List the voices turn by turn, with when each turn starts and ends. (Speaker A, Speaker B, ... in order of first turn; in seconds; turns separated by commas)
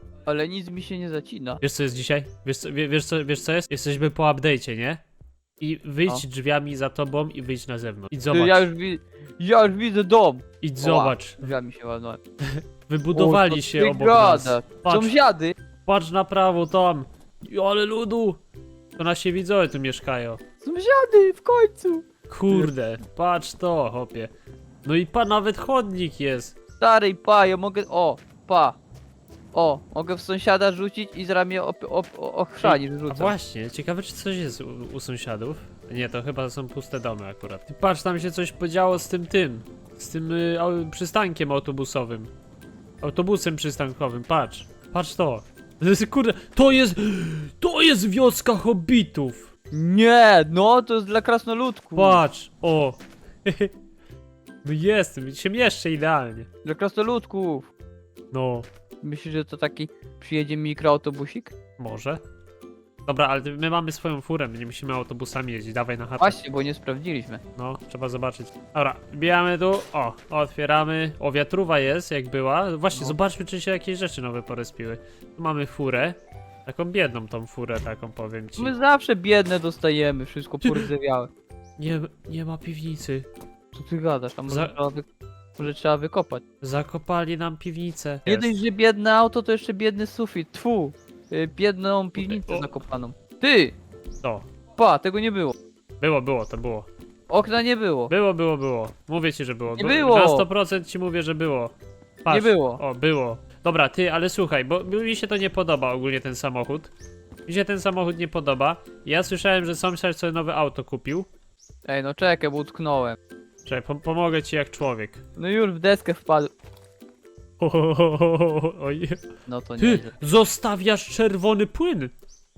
Speaker A: 0.3-1.6, Speaker B: 1.6-5.0, Speaker B: 5.6-8.7, Speaker A: 8.3-12.2, Speaker B: 10.6-11.5, Speaker B: 12.5-15.2, Speaker A: 13.1-15.5, Speaker B: 15.9-18.4, Speaker B: 19.0-20.4, Speaker A: 20.6-22.7, Speaker B: 22.3-24.3, Speaker B: 24.8-26.6, Speaker A: 26.8-28.8, Speaker A: 29.5-33.3, Speaker B: 32.6-42.3, Speaker B: 43.0-49.5, Speaker A: 49.7-52.2, Speaker B: 52.0-53.7, Speaker B: 54.6-56.5, Speaker A: 56.6-57.7, Speaker B: 58.3-58.7, Speaker A: 59.0-61.5, Speaker B: 61.8-62.2, Speaker B: 63.0-66.4, Speaker A: 66.2-67.4, Speaker B: 67.6-78.8, Speaker A: 78.6-81.3, Speaker B: 80.6-80.9, Speaker B: 81.8-83.3, Speaker A: 83.7-85.1, Speaker B: 84.5-84.8, Speaker A: 85.6-86.4, Speaker B: 86.6-88.5, Speaker A: 88.3-93.8, Speaker B: 92.2-92.7, Speaker A: 94.8-95.5, Speaker B: 96.0-96.9, Speaker A: 97.3-98.1, Speaker B: 98.1-106.9, Speaker A: 99.7-100.5, Speaker A: 102.3-102.8, Speaker B: 107.5-111.3, Speaker A: 111.9-113.2, Speaker B: 113.7-115.2, Speaker A: 115.4-116.5, Speaker B: 117.6-119.2, Speaker A: 119.5-120.1, Speaker B: 119.8-122.1